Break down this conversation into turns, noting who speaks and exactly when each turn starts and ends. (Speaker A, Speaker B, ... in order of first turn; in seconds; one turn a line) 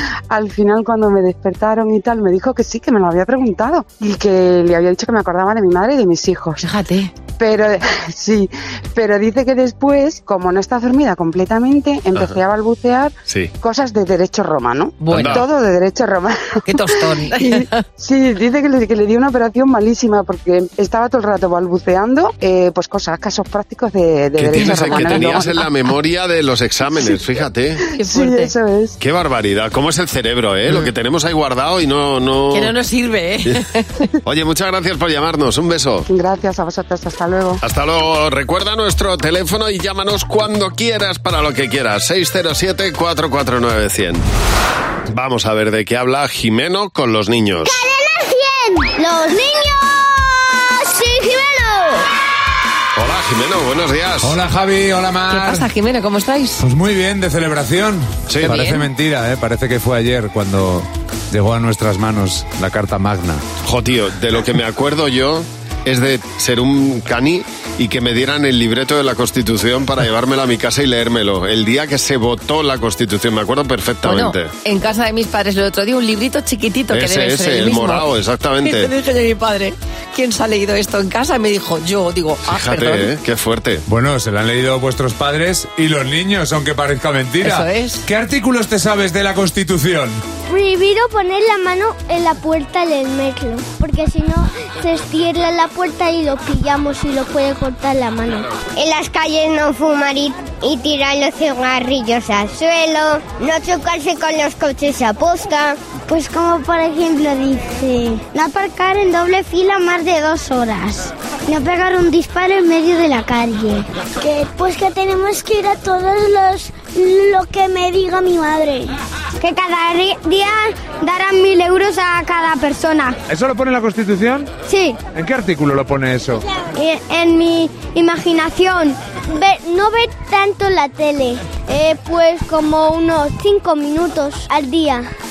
Speaker A: 0.3-6.6
Speaker B: 6.6-7.1
Speaker A: 7.4-25.5
Speaker B: 15.0-15.5
Speaker C: 15.1-15.5
Speaker B: 16.7-17.8
Speaker C: 24.4-27.8
Speaker B: 24.6-25.6
Speaker B: 27.9-28.5
Speaker A: 28.0-29.0
Speaker C: 29.0-32.7
Speaker B: 32.5-34.1
Speaker C: 34.2-36.1
Speaker A: 36.1-37.6
Speaker C: 37.6-44.2
Speaker C: 45.1-47.8
Speaker D: 47.6-52.1
Speaker C: 53.0-54.4
Speaker E: 54.2-55.7
Speaker B: 55.3-56.6
Speaker E: 56.6-63.4
Speaker C: 58.3-58.7
Speaker B: 58.4-58.9
Speaker C: 63.6-74.5
Speaker B: 74.0-78.0
Speaker C: 76.9-78.9
Speaker B: 78.6-83.1
Speaker C: 82.5-83.8
Speaker E: 83.9-90.2
Speaker B: 87.4-88.1
Speaker D: 90.5-123.2
Speaker E: 123.3-124.5
Speaker D: 124.7-125.0
Speaker E: 125.2-126.4
Speaker D: 126.7-135.1